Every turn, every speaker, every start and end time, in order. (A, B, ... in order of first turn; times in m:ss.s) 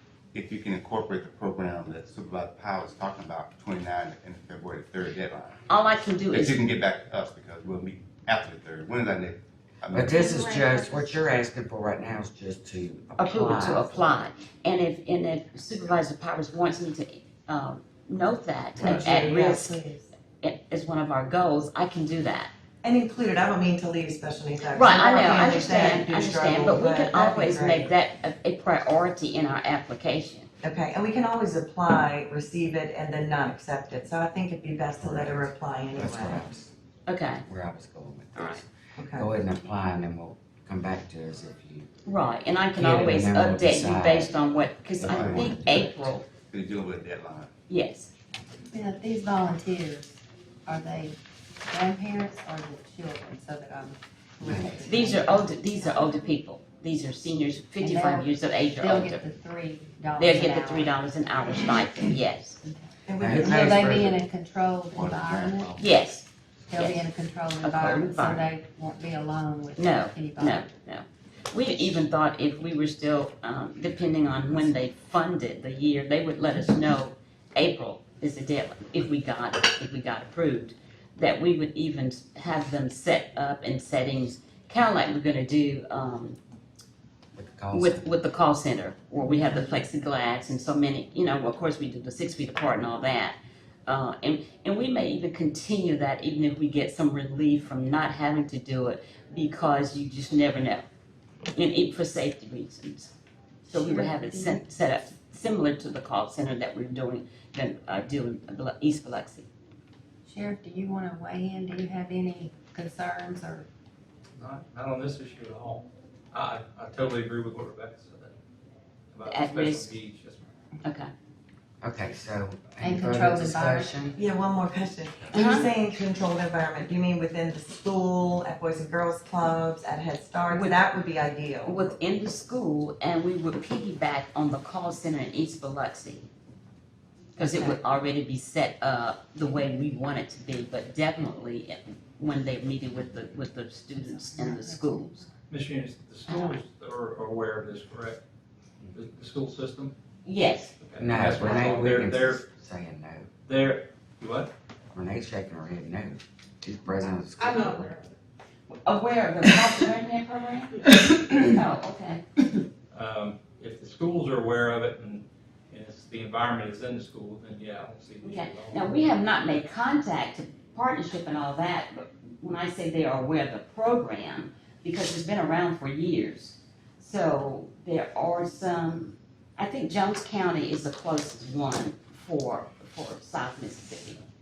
0:00.3-0:05.6 A
0:05.7-0:06.6 B
0:06.3-0:10.4 A
0:09.9-0:14.2 C
0:13.2-0:19.8 B
0:18.8-0:20.1 D
0:18.8-0:19.1 A
0:20.4-0:22.5 B
0:22.8-0:27.9 D
0:24.7-0:30.5 B
0:30.6-0:36.4 D
0:35.0-0:36.7 C
0:37.1-0:37.4 B
0:37.4-0:41.9 C
0:38.4-0:38.6 B
0:39.0-0:39.3 D
0:42.0-0:46.2 B
0:42.8-0:44.3 C
0:45.0-0:45.9 C
0:45.0-0:47.5 A
0:47.7-0:48.1 B
0:48.7-0:56.1 E
0:54.4-0:55.0 D
0:54.8-0:59.2 B
0:57.8-1:01.0 E
1:00.2-1:02.6 B
1:02.6-1:05.8 E
1:03.0-1:03.9 D
1:03.2-1:04.1 C
1:03.7-1:04.2 A
1:04.9-1:05.9 A
1:05.8-1:07.0 B
1:06.7-1:10.7 E
1:07.6-1:08.4 B
1:09.8-1:26.4 B
1:13.8-1:14.7 A
1:27.3-1:28.1 C
1:27.7-1:40.8 B
1:41.5-1:43.1 B
1:43.6-1:44.6 E
1:43.7-1:49.5 B
1:50.2-1:53.7 E
1:54.4-1:58.3 F
1:59.1-2:00.4 F
1:59.3-1:59.9 B
2:00.8-2:01.1 B
2:01.8-2:04.2 C
2:02.8-2:04.0 E
2:04.2-2:11.9 D
2:05.3-2:05.7 B
2:10.5-2:10.8 B
2:11.6-2:16.3 B
2:17.4-2:25.2 B
2:17.4-2:17.8 D
2:23.9-2:25.4 E
2:25.5-2:28.2 F
2:26.3-2:26.5 B
2:28.9-2:29.9 F
2:30.2-2:30.7 B
2:30.8-2:32.4 F
2:31.0-2:33.3 C
2:33.4-2:34.5 F
2:34.9-2:38.0 C
2:38.7-2:42.4 B
2:42.9-2:49.2 F
2:48.2-3:04.2 B